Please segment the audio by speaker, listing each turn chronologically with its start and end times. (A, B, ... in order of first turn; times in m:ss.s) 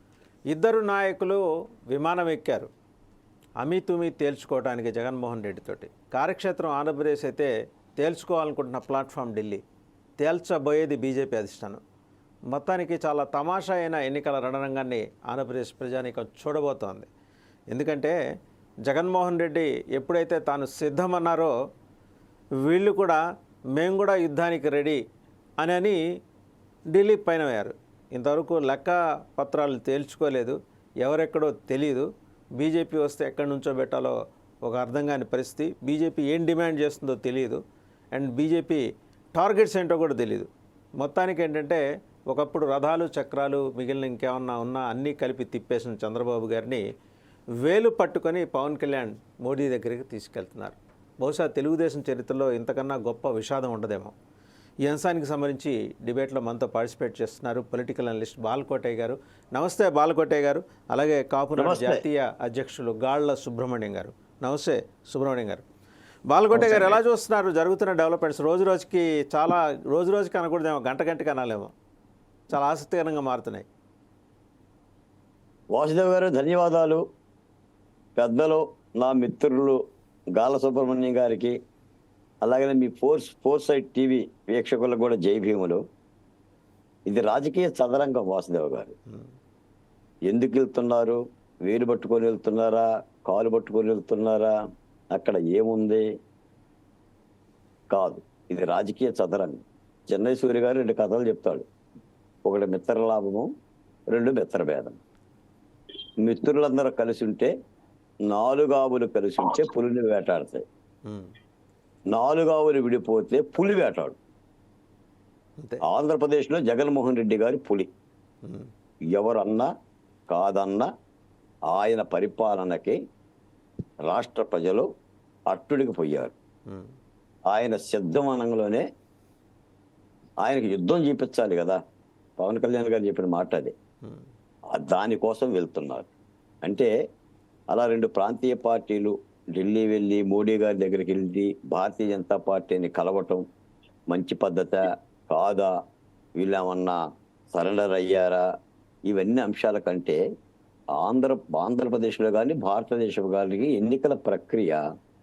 0:00.5-0:02.7 A
0:03.6-0:09.6 A
0:10.2-0:11.8 A
0:12.5-0:17.1 A
0:17.7-0:18.2 A
0:18.9-0:21.5 A
0:22.6-0:23.2 A
0:23.8-0:25.0 A
0:25.6-0:26.0 A
0:26.9-0:37.6 A
0:38.1-0:38.8 A
0:39.3-0:40.5 A
0:41.0-0:46.8 A
0:47.6-0:54.1 A
0:54.8-1:05.6 A
1:01.6-1:02.0 B
1:06.3-1:11.7 A
1:06.5-1:07.0 B
1:12.5-1:13.6 A
1:15.7-1:17.0 B
1:18.2-1:19.8 B
1:20.3-1:21.5 B
1:22.4-1:25.8 B
1:27.0-1:29.0 B
1:30.3-1:34.5 B
1:35.1-1:36.0 B
1:37.9-1:41.6 B
1:42.4-1:43.5 B
1:44.1-1:45.0 B
1:46.2-1:47.5 B
1:48.2-1:50.6 B
1:51.0-1:51.3 A
1:52.1-1:54.2 B
1:55.8-1:57.9 B
1:58.4-1:58.7 A
1:59.1-1:59.7 B
2:00.3-2:00.9 B
2:01.7-2:03.0 B
2:04.0-2:04.9 B
2:05.5-2:06.3 B
2:06.7-2:06.9 A
2:07.5-2:08.8 B
2:10.4-2:11.8 B
2:12.4-2:13.7 B
2:14.7-2:16.1 B
2:16.6-2:16.9 B
2:17.7-2:23.4 B
2:24.1-2:25.7 B
2:26.4-2:27.0 B
2:27.5-2:28.4 B
2:29.1-2:30.2 B
2:30.9-2:34.8 B